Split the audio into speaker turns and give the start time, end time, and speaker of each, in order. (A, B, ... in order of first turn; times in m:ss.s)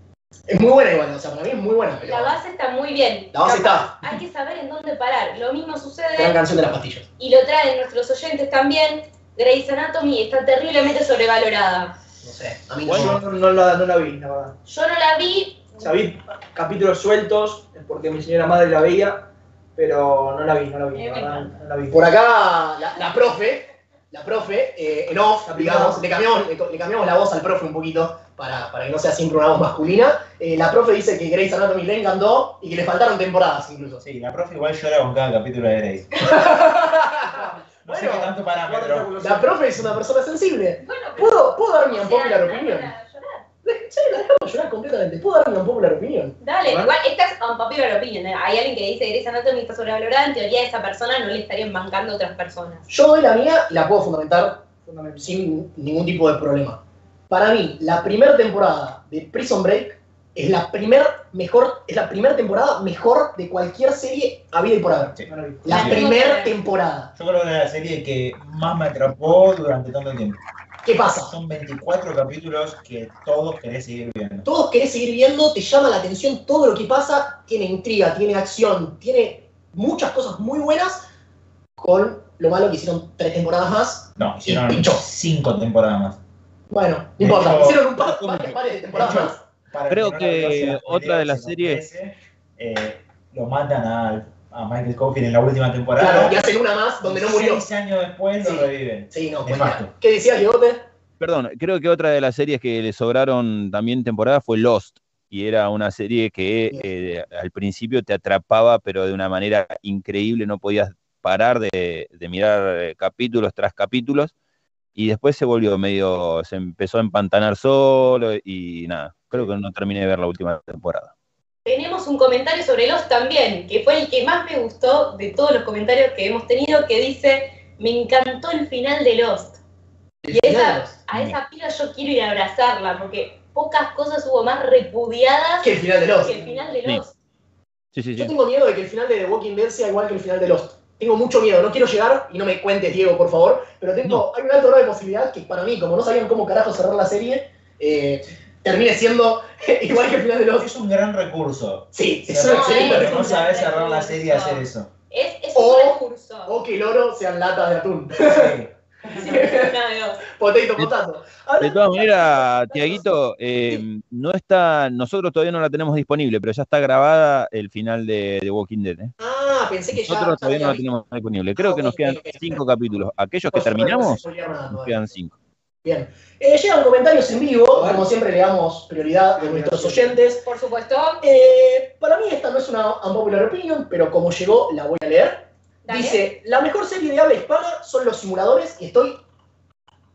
0:00.5-0:02.4 A
0:02.0-0:06.4 B
0:03.3-0:04.2 A
0:06.2-0:07.1 A
0:07.2-0:11.9 B
0:12.2-0:13.2 A
0:12.8-0:13.2 C
0:13.0-0:14.6 D
0:14.7-0:15.9 B
0:15.8-0:22.1 D
0:20.9-0:21.5 B
0:21.9-0:34.0 A
0:25.5-0:26.2 D
0:34.0-0:36.2 E
0:36.2-0:38.3 A
0:37.2-0:37.6 D
0:37.8-0:39.2 E
0:38.4-0:39.6 D
0:39.2-0:42.9 A
0:40.8-0:43.4 B
0:43.6-0:46.3 A
0:46.4-0:52.8 B
0:46.6-0:46.9 D
0:52.9-0:54.6 A
0:54.8-0:55.3 D
0:55.2-1:07.1 A
1:05.2-1:05.6 D
1:05.7-1:06.6 B
1:07.2-1:10.4 E
1:10.8-1:11.3 A
1:11.3-1:14.4 E
1:14.4-1:21.0 A
1:21.8-1:25.0 A
1:24.2-1:26.2 E
1:26.7-1:29.4 A
1:27.2-1:28.4 E
1:28.9-1:36.4 E
1:29.9-1:31.8 C
1:36.0-1:37.6 A
1:37.0-1:39.9 E
1:38.4-1:40.8 A
1:41.2-1:54.3 C
1:54.9-2:01.1 C
2:01.6-2:09.6 B
2:10.2-2:11.0 A
2:10.3-2:17.1 B
2:15.6-2:16.4 A
2:17.9-2:18.3 C
2:18.1-2:30.7 A
2:30.6-2:34.9 E
2:31.9-2:33.4 A
2:32.4-2:36.6 B
2:35.5-2:39.8 A
2:38.2-2:38.7 E
2:39.1-2:40.2 B
2:40.3-2:43.1 A
2:41.6-2:49.1 C
2:49.2-2:50.8 A
2:49.9-2:55.4 C
2:51.6-2:52.6 A
2:53.5-2:55.1 A
2:55.8-3:00.4 A
2:57.7-2:58.0 D
2:59.3-3:00.2 D
3:00.4-3:01.2 B
3:01.2-3:09.2 A
3:05.8-3:06.2 B